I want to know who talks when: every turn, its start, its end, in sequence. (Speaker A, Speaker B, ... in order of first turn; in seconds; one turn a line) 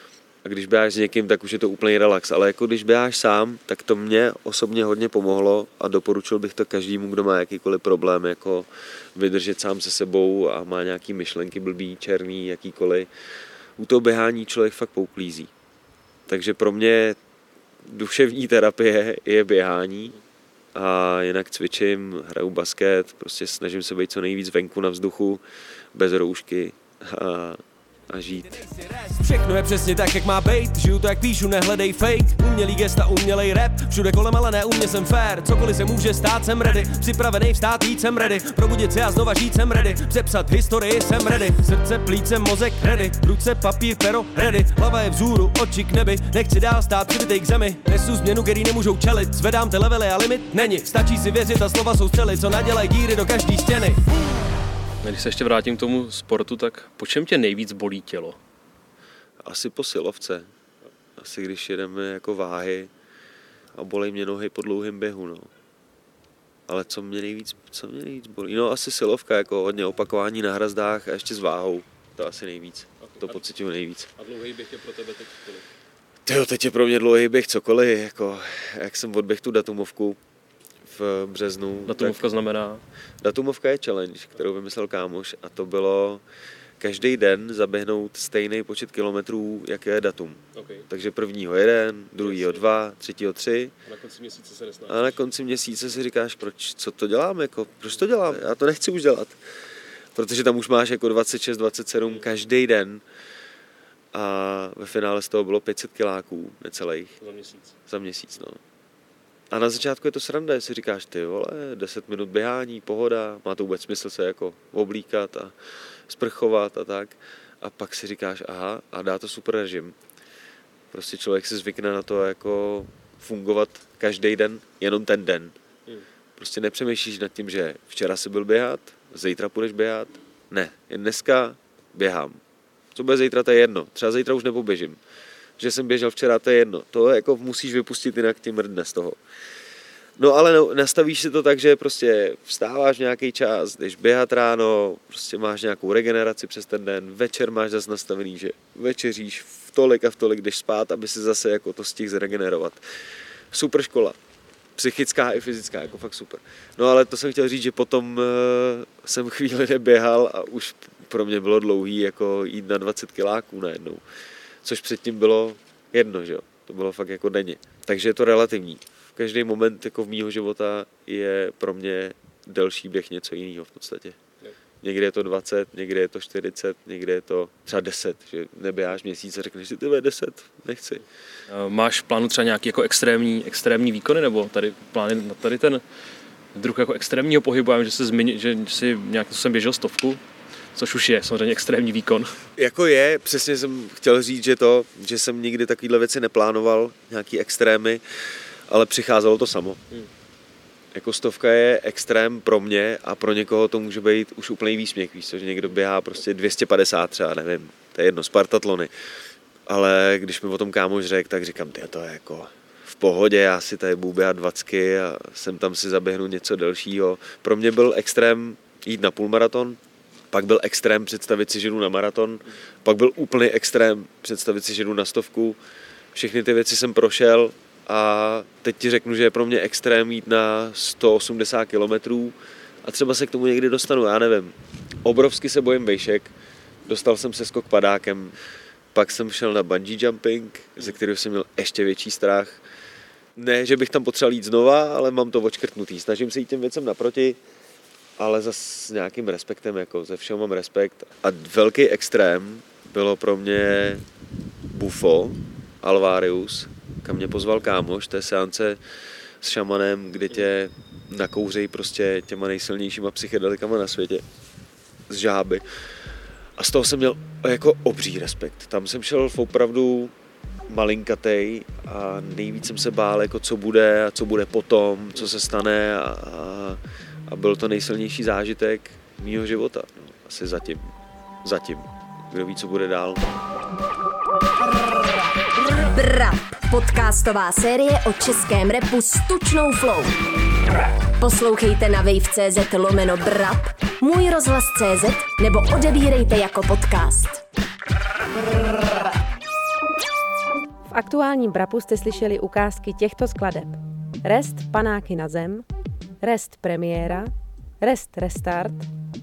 Speaker A: 0.4-13.1
Speaker A: 13.8-15.5
Speaker A: 16.3-17.2
Speaker A: 17.8-20.2
Speaker A: 20.8-25.4
Speaker A: 25.9-28.7
Speaker B: 28.7-54.0
Speaker C: 55.0-58.4
Speaker A: 59.4-60.5
Speaker A: 61.2-62.9
Speaker A: 63.7-65.5
Speaker A: 66.7-74.1
Speaker C: 73.0-73.4
Speaker C: 74.2-75.7
Speaker A: 76.3-80.2
Speaker A: 80.8-82.3
Speaker C: 81.9-82.8
Speaker A: 83.2-86.2
Speaker A: 86.8-93.8
Speaker C: 90.6-90.9
Speaker C: 92.2-92.6
Speaker C: 93.9-95.1
Speaker A: 94.9-99.4
Speaker A: 100.2-103.0
Speaker A: 104.1-107.2
Speaker C: 107.2-107.7
Speaker A: 107.9-108.6
Speaker A: 109.5-115.5
Speaker A: 116.1-120.0
Speaker A: 120.9-125.5
Speaker A: 126.4-132.4
Speaker A: 132.9-135.0
Speaker A: 135.6-139.2
Speaker A: 140.2-152.8
Speaker A: 153.5-154.2
Speaker A: 154.8-164.0
Speaker A: 164.6-174.2
Speaker A: 174.8-181.0
Speaker C: 181.5-185.8
Speaker C: 186.6-190.2
Speaker C: 190.8-192.3
Speaker A: 192.6-198.0
Speaker A: 198.7-199.8
Speaker A: 200.9-208.9
Speaker A: 209.7-219.8
Speaker A: 220.3-225.6
Speaker A: 226.2-234.5
Speaker A: 235.1-236.3
Speaker A: 236.9-238.3
Speaker A: 238.9-242.6
Speaker A: 243.4-247.4
Speaker A: 248.2-254.0
Speaker A: 254.7-258.8
Speaker A: 259.4-264.2
Speaker A: 265.1-265.6
Speaker A: 266.6-270.1
Speaker A: 270.7-280.9
Speaker A: 281.4-283.2
Speaker D: 285.7-290.2
Speaker D: 291.2-297.4
Speaker E: 300.9-305.7
Speaker E: 306.2-308.9